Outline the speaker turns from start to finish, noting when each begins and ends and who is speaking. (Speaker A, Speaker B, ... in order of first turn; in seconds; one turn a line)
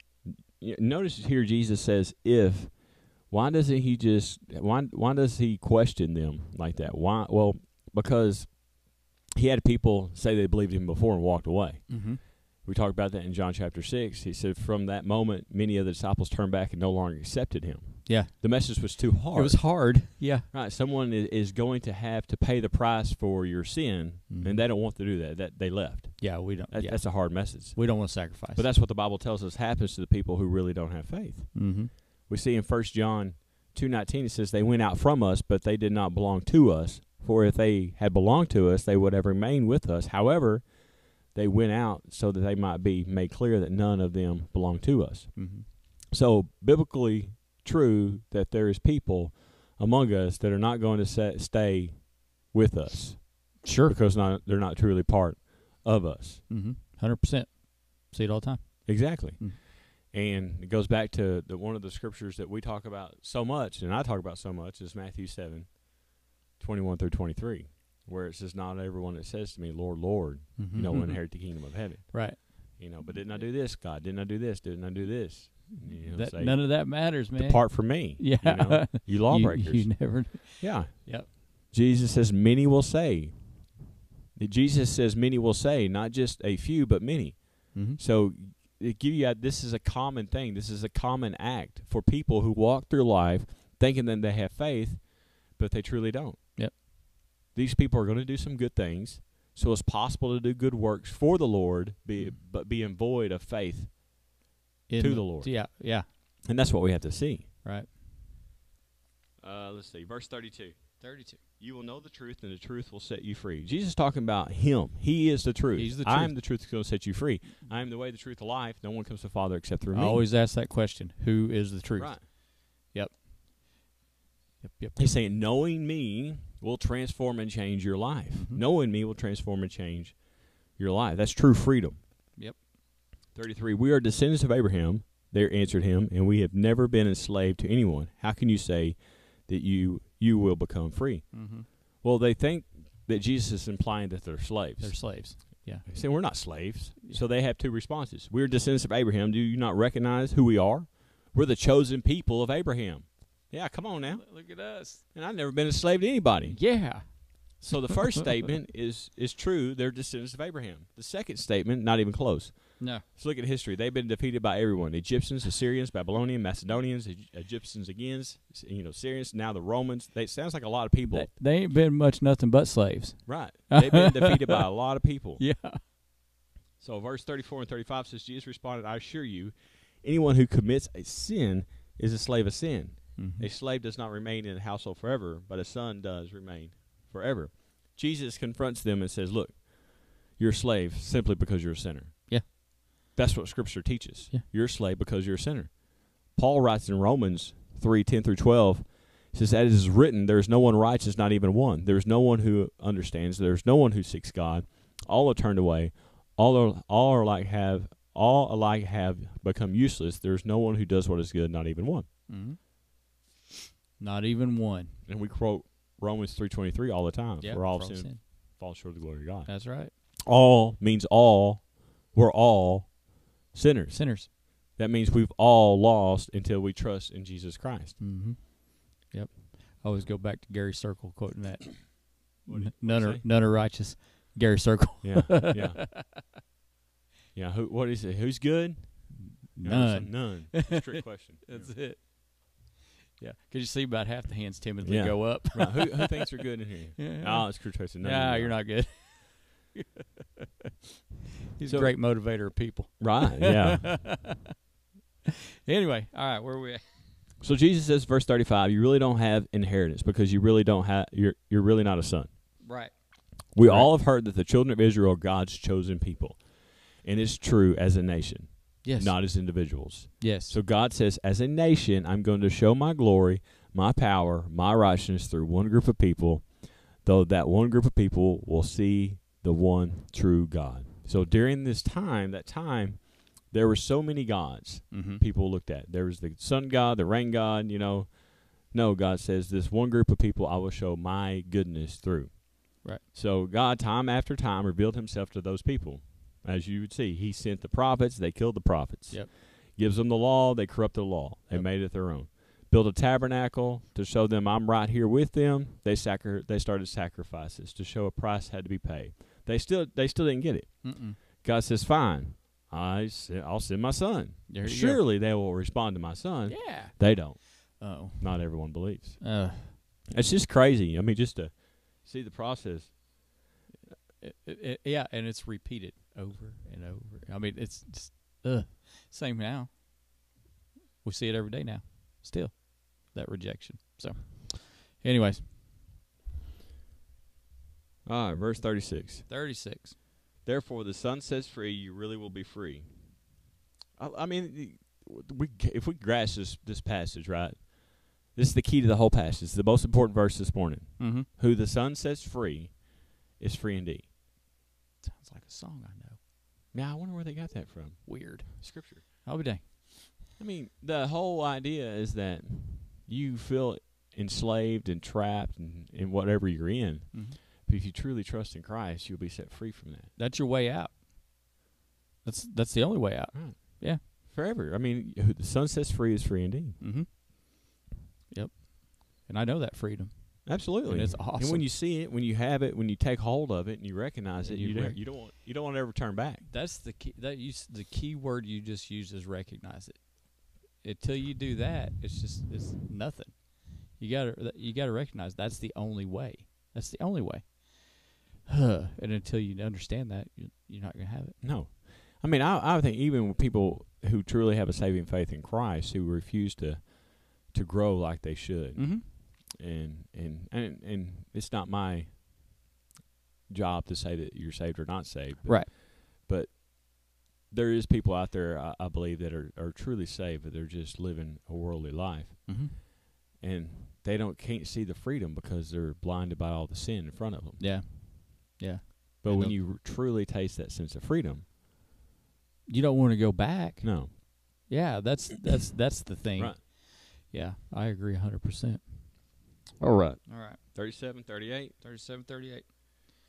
Speaker A: 0.2-56.4
Speaker B: 11.9-12.2
Speaker B: 18.1-20.5
Speaker B: 24.3-24.6
Speaker B: 26.2-28.7
Speaker B: 31.5-31.9
Speaker B: 45.4-45.7
Speaker B: 53.6-54.0
Speaker B: 56.5-59.6
Speaker A: 58.9-96.6
Speaker B: 70.6-71.5
Speaker B: 72.1-73.4
Speaker B: 75.8-81.3
Speaker B: 87.7-88.0
Speaker B: 96.5-96.8
Speaker A: 97.5-104.2
Speaker B: 104.9-106.0
Speaker A: 105.0-105.8
Speaker A: 106.4-107.5
Speaker B: 107.6-107.9
Speaker A: 109.4-111.0
Speaker B: 111.0-111.4
Speaker A: 111.6-120.2
Speaker B: 115.8-116.5
Speaker B: 119.9-123.2
Speaker A: 122.0-122.2
Speaker B: 124.6-125.2
Speaker A: 125.0-132.0
Speaker B: 128.4-128.6
Speaker B: 132.4-132.7
Speaker A: 133.3-154.4
Speaker B: 141.3-141.7
Speaker B: 144.8-146.4
Speaker B: 154.1-155.0
Speaker A: 155.1-156.9
Speaker B: 156.5-157.7
Speaker A: 157.6-171.3
Speaker B: 171.1-174.6
Speaker A: 173.2-175.4
Speaker B: 175.4-175.8
Speaker A: 176.8-192.4
Speaker B: 183.2-183.5
Speaker A: 193.1-212.1
Speaker B: 212.3-212.7
Speaker B: 214.0-215.0
Speaker A: 215.1-219.5
Speaker B: 217.4-218.2
Speaker B: 219.5-219.9
Speaker A: 220.2-228.0
Speaker B: 223.9-224.3
Speaker B: 228.0-236.3
Speaker A: 232.4-233.3
Speaker A: 235.0-235.9
Speaker A: 237.3-241.7
Speaker B: 239.3-240.9
Speaker B: 241.5-246.4
Speaker A: 244.8-248.6
Speaker B: 247.0-249.8
Speaker B: 251.6-254.5
Speaker A: 251.6-252.0
Speaker A: 253.0-253.9
Speaker B: 255.7-256.8
Speaker A: 257.4-262.3
Speaker B: 262.6-263.9
Speaker A: 263.5-319.4
Speaker B: 268.8-269.2
Speaker B: 270.2-270.6
Speaker B: 284.9-285.2
Speaker B: 310.8-311.2
Speaker B: 314.5-315.0
Speaker B: 316.5-319.7
Speaker A: 320.1-323.1
Speaker B: 324.2-330.3
Speaker B: 331.0-335.4
Speaker A: 338.1-339.3
Speaker B: 339.3-340.0
Speaker A: 340.4-343.3
Speaker A: 344.0-354.1
Speaker B: 351.0-351.3
Speaker B: 355.0-356.2
Speaker A: 356.7-359.0
Speaker B: 358.1-359.9
Speaker A: 360.4-370.1
Speaker B: 367.1-367.4
Speaker B: 370.2-371.0
Speaker B: 372.2-374.0
Speaker A: 373.3-376.8
Speaker B: 376.8-377.6
Speaker B: 378.3-381.7
Speaker A: 380.4-386.5
Speaker B: 384.4-385.0
Speaker B: 386.5-401.5
Speaker A: 401.4-412.2
Speaker B: 408.8-409.1
Speaker A: 413.5-422.7
Speaker B: 415.4-415.7
Speaker B: 422.4-422.8
Speaker A: 423.4-427.6
Speaker B: 427.6-429.6
Speaker A: 429.2-431.4
Speaker B: 432.7-439.4
Speaker A: 433.8-434.1
Speaker A: 439.8-441.7
Speaker B: 440.2-441.2
Speaker B: 441.8-442.6